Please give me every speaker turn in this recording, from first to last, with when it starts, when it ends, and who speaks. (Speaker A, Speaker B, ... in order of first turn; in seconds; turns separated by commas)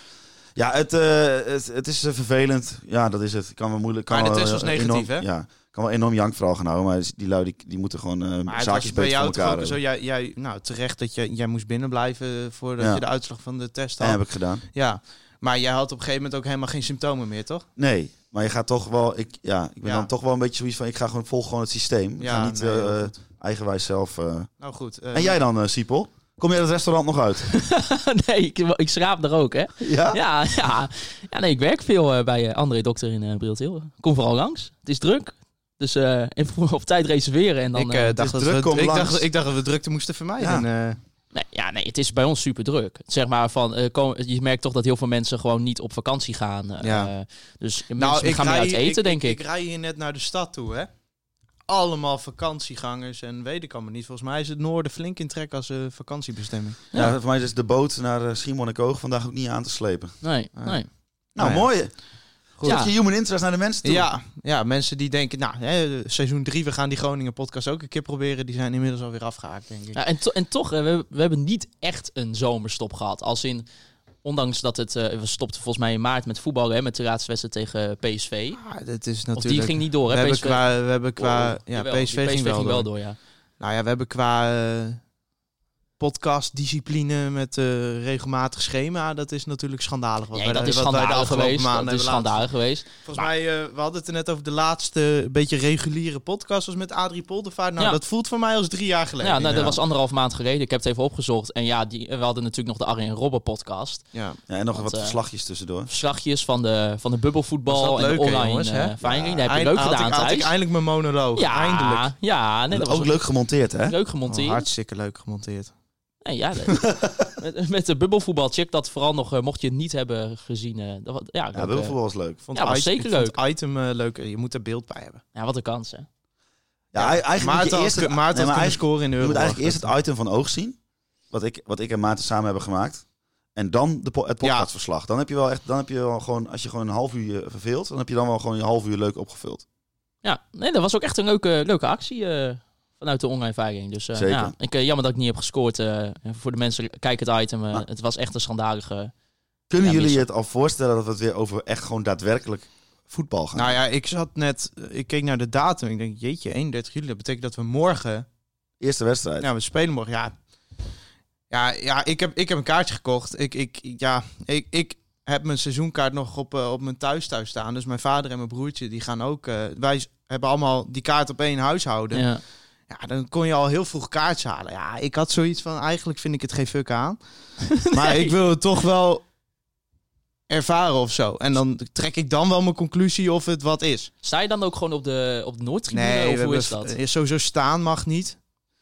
Speaker A: 0.6-9.8, Speaker B: 4.1-5.3, Speaker B: 8.5-17.7, Speaker A: 12.8-13.0, Speaker A: 14.0-14.6, Speaker A: 17.8-24.5, Speaker B: 19.8-20.1, Speaker B: 22.2-23.1, Speaker B: 24.6-25.4, Speaker A: 25.1-27.5, Speaker C: 27.5-38.1, Speaker A: 29.8-30.2, Speaker B: 37.8-41.0, Speaker A: 38.2-39.3, Speaker A: 40.4-40.7, Speaker C: 41.3-49.4, Speaker B: 46.8-47.1, Speaker B: 48.0-50.9, Speaker B: 51.7-56.8, Speaker A: 56.9-60.1, Speaker C: 60.2-60.9, Speaker A: 61.4-61.9, Speaker B: 61.4-61.7, Speaker B: 62.6-62.9, Speaker A: 62.6-64.1, Speaker C: 62.6-62.9, Speaker B: 63.8-70.0, Speaker C: 70.0-73.7, Speaker C: 74.2-78.6, Speaker B: 78.6-82.9, Speaker C: 79.3-80.7, Speaker C: 81.2-83.2, Speaker B: 83.6-85.0, Speaker B: 86.0-92.5, Speaker C: 90.3-93.3, Speaker B: 93.0-99.8, Speaker C: 99.2-104.0, Speaker B: 104.1-104.4, Speaker A: 104.5-105.9, Speaker C: 104.7-105.2, Speaker C: 105.9-110.5, Speaker B: 107.7-112.1, Speaker A: 109.0-109.5, Speaker C: 111.4-113.2, Speaker A: 112.7-114.0, Speaker C: 113.9-114.7, Speaker B: 114.3-115.7, Speaker C: 116.2-122.0, Speaker A: 121.5-122.4, Speaker B: 122.5-125.2, Speaker C: 122.5-123.3, Speaker C: 125.3-126.1, Speaker A: 126.9-130.8, Speaker B: 127.0-129.9, Speaker A: 131.3-133.0, Speaker A: 133.6-139.7, Speaker B: 134.4-134.7, Speaker C: 140.2-149.1, Speaker A: 144.2-144.5, Speaker A: 149.7-153.8, Speaker C: 149.8-150.2, Speaker B: 153.6-158.3, Speaker A: 158.8-159.5, Speaker B: 159.4-160.3, Speaker B: 161.5-172.3, Speaker C: 172.1-172.4, Speaker B: 172.9-177.2, Speaker C: 177.7-178.3, Speaker B: 177.8-179.2, Speaker B: 180.5-184.1, Speaker C: 184.2-186.9, Speaker B: 185.9-188.4